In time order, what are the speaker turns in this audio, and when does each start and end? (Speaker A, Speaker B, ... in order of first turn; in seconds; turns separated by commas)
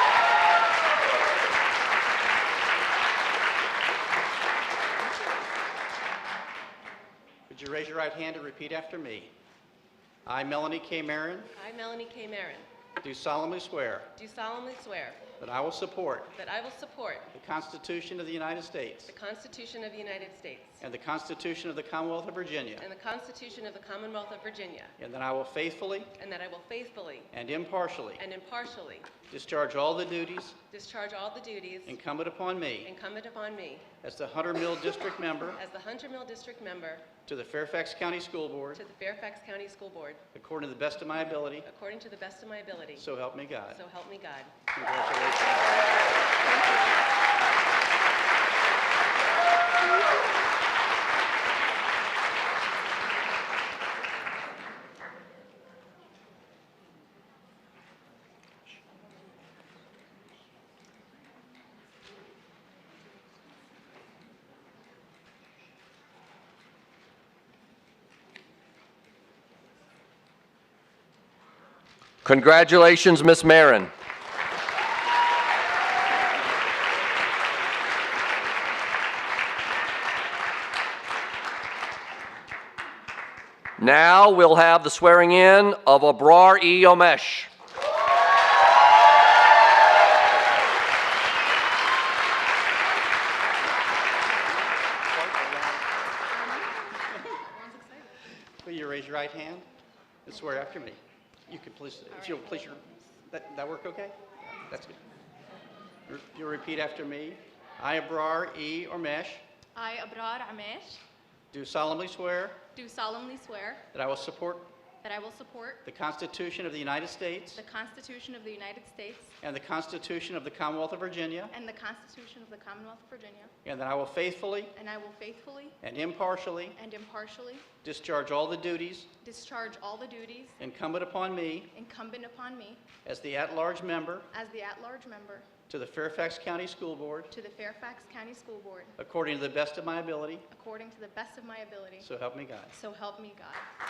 Speaker A: 7.5-9.3, Speaker A: 10.2-11.5, Speaker B: 11.6-12.7, Speaker A: 13.0-14.1, Speaker B: 14.1-15.2, Speaker A: 15.4-16.3, Speaker B: 16.3-17.3, Speaker A: 17.3-19.1, Speaker B: 19.1-20.8, Speaker A: 20.8-22.9, Speaker B: 22.8-24.9, Speaker A: 25.0-26.1, Speaker B: 26.1-27.3, Speaker A: 27.3-28.2, Speaker B: 28.2-29.1, Speaker A: 29.3-30.6, Speaker B: 30.7-32.0, Speaker A: 31.8-32.9, Speaker B: 32.8-33.9, Speaker A: 34.0-35.6, Speaker B: 35.6-37.1, Speaker A: 37.2-38.8, Speaker B: 38.7-40.2, Speaker A: 40.3-41.7, Speaker B: 41.6-43.1, Speaker A: 42.9-43.8, Speaker B: 43.7-44.5, Speaker A: 44.7-45.8, Speaker B: 45.6-46.2, Speaker C: 72.2-73.9, Speaker C: 83.8-87.5, Speaker A: 95.1-95.8, Speaker D: 96.3-98.2, Speaker A: 98.6-99.7, Speaker A: 100.2-105.0, Speaker D: 102.1-102.7, Speaker A: 106.1-109.4, Speaker D: 109.7-111.0, Speaker A: 111.5-112.6, Speaker D: 112.7-113.8, Speaker A: 113.9-114.7, Speaker D: 115.0-115.8, Speaker A: 115.8-117.6, Speaker D: 117.5-119.3, Speaker A: 119.4-121.5, Speaker D: 121.5-123.5, Speaker A: 123.6-124.7, Speaker D: 124.7-125.8, Speaker A: 125.8-126.8, Speaker D: 126.8-127.7, Speaker A: 127.8-129.1, Speaker D: 129.2-130.6, Speaker A: 130.6-131.7, Speaker D: 131.7-132.8, Speaker A: 133.0-134.3, Speaker D: 134.3-135.5, Speaker A: 135.7-137.3, Speaker D: 137.3-138.9, Speaker A: 139.0-140.5, Speaker D: 140.5-142.1, Speaker A: 142.0-142.8, Speaker D: 142.7-143.7